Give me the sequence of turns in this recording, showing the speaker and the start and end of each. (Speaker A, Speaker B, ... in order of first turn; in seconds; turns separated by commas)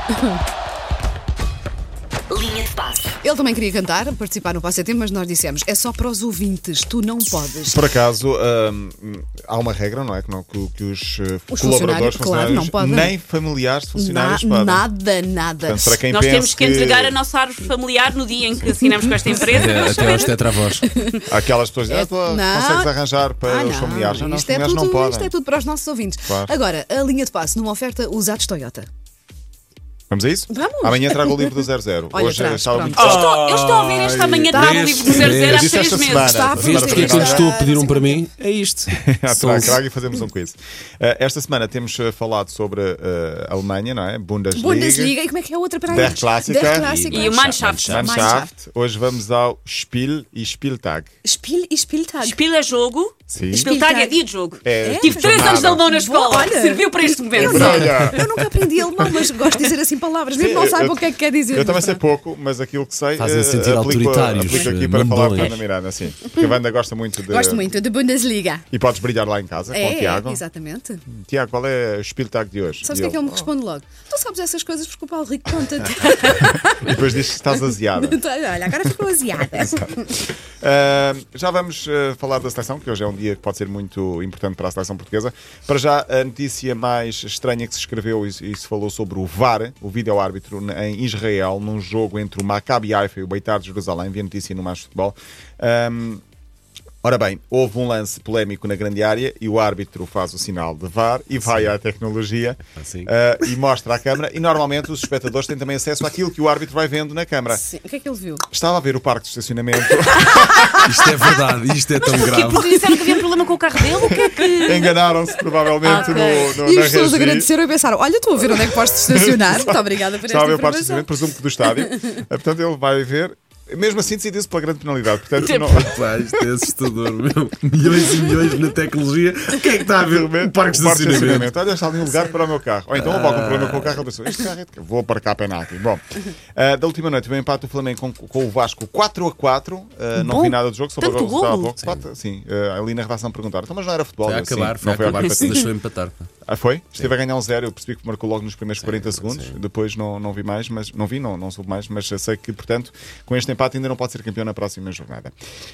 Speaker A: 2.3-3.0, Speaker B: 3.1-7.9, Speaker C: 7.7-14.8, Speaker B: 11.5-13.1, Speaker B: 13.9-16.0, Speaker C: 15.6-17.2, Speaker A: 16.1-20.3, Speaker B: 18.8-21.3, Speaker D: 19.4-20.8, Speaker C: 21.3-25.3, Speaker B: 21.9-22.9, Speaker B: 23.4-28.9, Speaker C: 26.3-26.5, Speaker C: 30.1-33.3, Speaker B: 30.5-33.2, Speaker A: 33.0-36.5, Speaker D: 33.0-39.8, Speaker B: 34.5-35.5, Speaker C: 35.4-37.6, Speaker B: 36.0-38.2, Speaker C: 38.9-45.1, Speaker B: 44.5-48.5, Speaker C: 45.9-46.9, Speaker D: 45.9-48.1, Speaker A: 47.1-48.3, Speaker C: 47.9-51.1, Speaker B: 51.2-52.4, Speaker A: 52.2-57.9, Speaker C: 53.3-53.7, Speaker B: 53.5-54.2, Speaker C: 54.6-55.8, Speaker B: 54.8-62.0, Speaker C: 57.4-59.5, Speaker C: 60.3-67.7, Speaker D: 63.1-65.6, Speaker B: 64.5-64.7, Speaker B: 67.3-68.6, Speaker C: 68.7-70.4, Speaker B: 69.7-71.0, Speaker C: 71.1-73.5, Speaker B: 72.8-80.2, Speaker C: 75.8-78.2, Speaker C: 79.5-79.9, Speaker C: 80.6-96.2, Speaker C: 97.0-107.6, Speaker D: 101.5-101.7, Speaker D: 102.8-103.1, Speaker B: 107.5-108.4, Speaker C: 108.5-111.1, Speaker B: 110.2-110.7, Speaker D: 110.8-112.9, Speaker A: 112.0-115.0, Speaker C: 114.0-117.5, Speaker B: 115.8-121.1, Speaker A: 115.8-116.6, Speaker C: 118.4-125.9, Speaker B: 121.7-121.9, Speaker A: 125.4-126.1, Speaker D: 125.4-131.5, Speaker C: 129.9-136.0, Speaker B: 132.0-132.4, Speaker D: 132.9-134.0, Speaker C: 136.5-145.7, Speaker A: 140.1-141.7, Speaker D: 144.2-146.3, Speaker A: 145.1-145.6, Speaker C: 146.4-155.3, Speaker D: 148.8-149.6